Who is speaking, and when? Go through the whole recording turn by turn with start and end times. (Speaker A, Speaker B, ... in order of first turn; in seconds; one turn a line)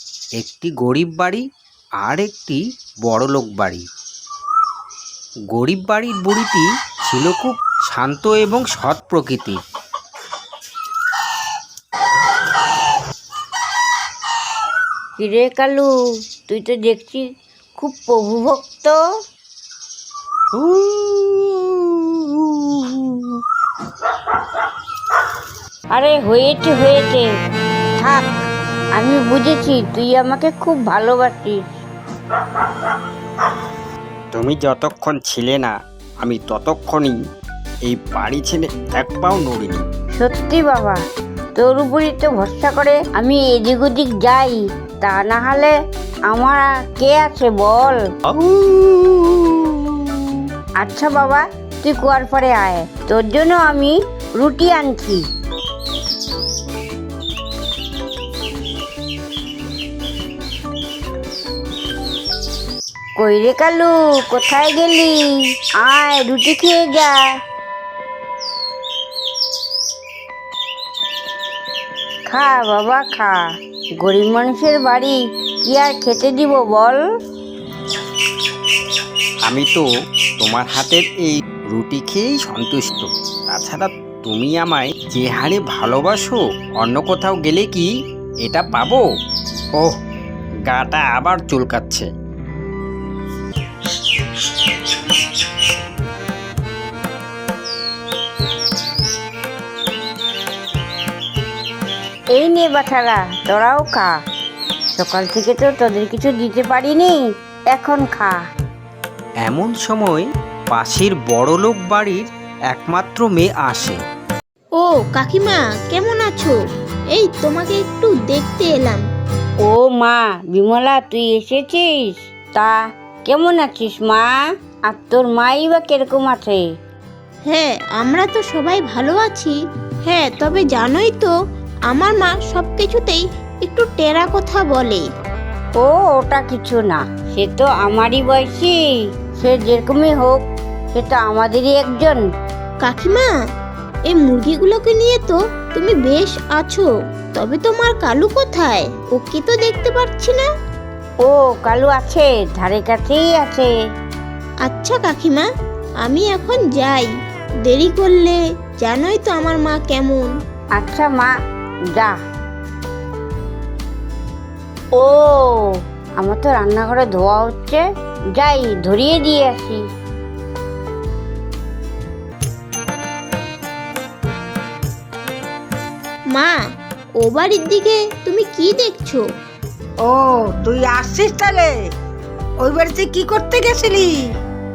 Speaker A: 0.4-1.4
Speaker A: 2.0-3.8
Speaker A: 5.5-9.6
Speaker B: 15.2-17.3
Speaker B: 17.8-19.0
Speaker A: 20.5-23.4
Speaker B: 25.9-27.3
Speaker B: 28.0-28.3
Speaker B: 28.9-31.7
Speaker A: 34.3-37.2
Speaker A: 37.8-39.8
Speaker B: 40.1-41.0
Speaker B: 41.5-45.7
Speaker B: 46.3-48.0
Speaker A: 48.3-50.1
Speaker B: 50.8-55.2
Speaker B: 63.2-67.3
Speaker B: 72.3-73.5
Speaker B: 74.0-77.0
Speaker A: 79.5-87.9
Speaker A: 88.4-89.0
Speaker A: 90.7-92.1
Speaker B: 102.3-104.1
Speaker B: 104.9-108.4
Speaker A: 109.4-114.0
Speaker C: 114.8-116.6
Speaker C: 117.1-119.0
Speaker B: 119.6-124.3
Speaker B: 124.9-126.6
Speaker C: 127.5-129.5
Speaker C: 130.1-131.3
Speaker C: 131.9-135.0
Speaker B: 135.8-138.8
Speaker B: 139.4-140.4
Speaker B: 140.9-142.2
Speaker C: 142.8-143.3
Speaker C: 144.1-150.4
Speaker B: 151.2-153.7
Speaker C: 154.6-155.5
Speaker C: 156.0-157.1
Speaker C: 157.7-160.3
Speaker B: 160.8-161.3
Speaker B: 165.0-167.8
Speaker B: 168.3-169.8
Speaker C: 177.2-179.2
Speaker D: 180.0-181.7
Speaker D: 182.6-184.1